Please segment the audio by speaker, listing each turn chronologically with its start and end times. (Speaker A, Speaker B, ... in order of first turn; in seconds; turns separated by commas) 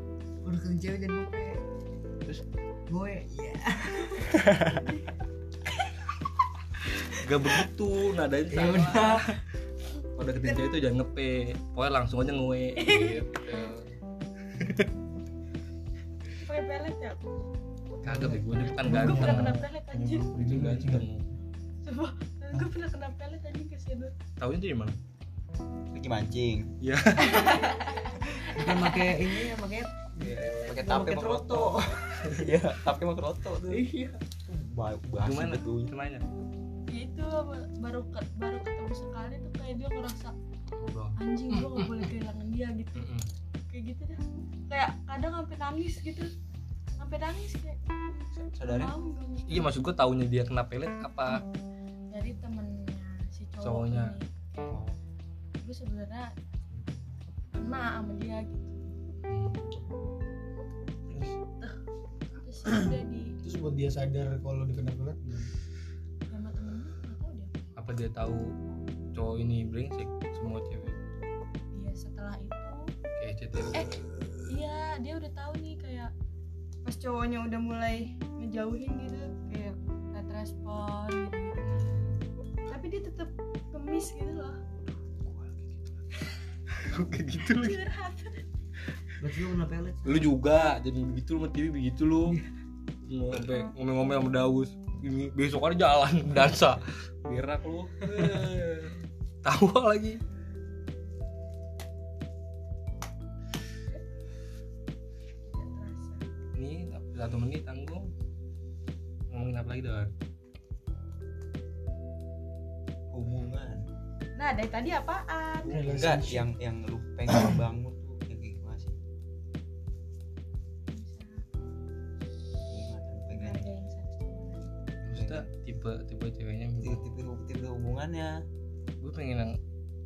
Speaker A: 0.4-1.6, Speaker A: 2.9-4.3, Speaker B: 4.3-4.8, Speaker C: 7.1-9.3, Speaker A: 8.5-9.3, Speaker C: 10.2-13.9, Speaker D: 12.8-13.7, Speaker C: 14.5-14.9, Speaker D: 16.4-17.2, Speaker C: 18.0-19.6, Speaker A: 18.1-18.4, Speaker D: 18.8-20.3, Speaker E: 18.8-21.1, Speaker C: 20.4-21.2, Speaker D: 21.8-24.1, Speaker C: 24.4-25.0, Speaker B: 25.9-26.7, Speaker C: 26.8-27.7, Speaker D: 27.2-29.1, Speaker A: 28.5-32.4, Speaker B: 30.2-33.8, Speaker A: 33.7-34.2, Speaker B: 34.5-35.9, Speaker C: 35.2-36.2, Speaker D: 36.9-40.3, Speaker C: 40.8-42.1, Speaker D: 41.2-43.1, Speaker C: 43.0-43.3, Speaker D: 43.7-46.3, Speaker D: 47.0-49.7, Speaker B: 48.4-49.0, Speaker C: 49.5-51.4, Speaker D: 52.1-54.8, Speaker C: 53.6-54.2, Speaker C: 54.7-55.0, Speaker D: 55.6-56.3, Speaker D: 57.5-58.9, Speaker C: 59.3-59.8, Speaker D: 61.5-61.8, Speaker D: 62.3-63.3, Speaker E: 63.4-65.5, Speaker D: 66.3-67.7, Speaker C: 67.8-68.5, Speaker C: 69.1-71.0, Speaker D: 71.7-72.9, Speaker C: 73.2-74.0, Speaker D: 73.7-76.1, Speaker D: 76.8-81.6, Speaker C: 81.6-82.2, Speaker D: 82.7-84.6, Speaker C: 84.9-85.9, Speaker C: 86.7-87.8, Speaker D: 87.5-88.4, Speaker A: 89.2-90.3, Speaker C: 90.0-92.4, Speaker C: 93.0-100.2, Speaker A: 98.0-98.5, Speaker D: 105.5-106.2, Speaker C: 106.6-108.1, Speaker C: 109.3-110.1, Speaker B: 113.1-113.8, Speaker D: 114.4-115.9, Speaker C: 115.6-116.0, Speaker E: 115.7-116.5, Speaker B: 115.9-119.0, Speaker D: 120.9-121.4, Speaker B: 122.7-123.7, Speaker D: 123.3-124.7, Speaker C: 125.0-127.0, Speaker B: 125.1-125.5, Speaker B: 126.8-128.4, Speaker C: 129.0-129.6